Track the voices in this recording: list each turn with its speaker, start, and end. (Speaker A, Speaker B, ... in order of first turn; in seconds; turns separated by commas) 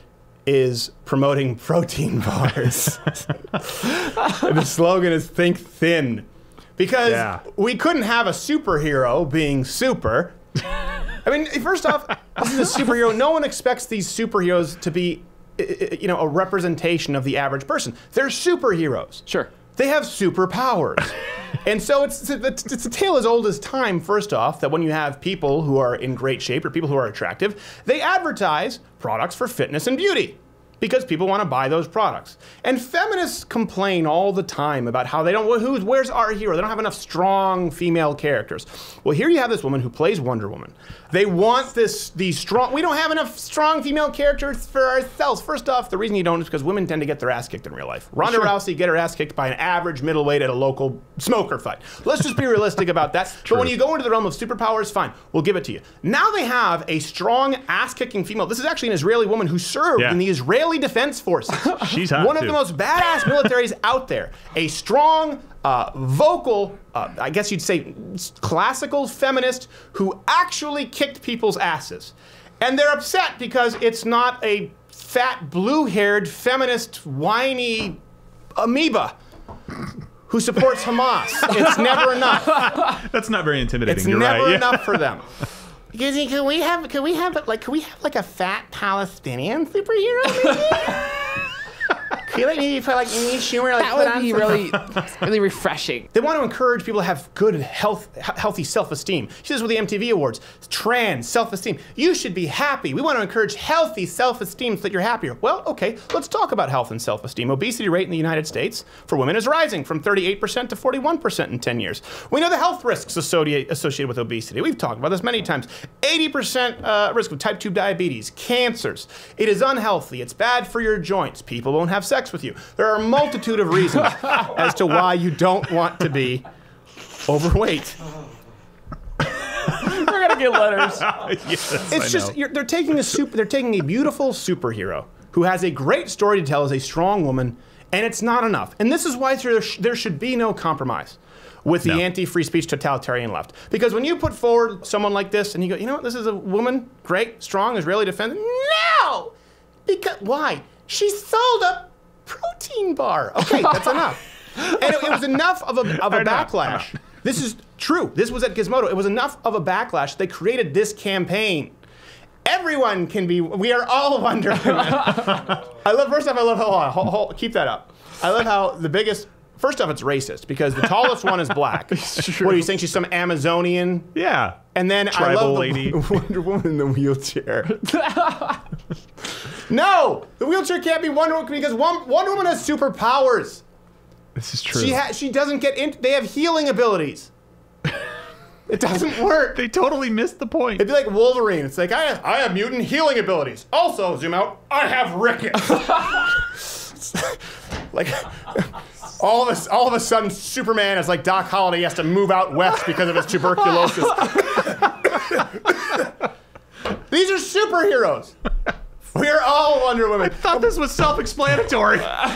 Speaker A: 0.5-10.4, Speaker B: 7.1-7.4, Speaker A: 11.2-78.0, Speaker B: 61.8-62.6, Speaker A: 78.5-79.1, Speaker A: 80.3-82.6, Speaker B: 82.4-85.0, Speaker A: 83.8-85.3, Speaker A: 85.9-91.3, Speaker A: 92.1-95.0, Speaker C: 93.8-96.0, Speaker A: 96.1-126.5, Speaker A: 127.2-128.0, Speaker C: 129.7-131.1, Speaker B: 130.8-132.3, Speaker A: 131.7-149.3, Speaker A: 149.8-161.8, Speaker B: 156.1-156.5, Speaker A: 162.4-174.1, Speaker B: 172.0-172.6, Speaker B: 174.1-174.6, Speaker A: 174.7-177.9, Speaker B: 175.1-176.0, Speaker C: 177.9-178.6, Speaker A: 179.5-183.6, Speaker B: 184.3-185.0, Speaker A: 184.7-187.3, Speaker A: 188.7-189.6, Speaker B: 189.5-190.8, Speaker A: 190.8-206.1, Speaker A: 207.0-208.3, Speaker A: 209.1-210.8, Speaker B: 210.4-212.2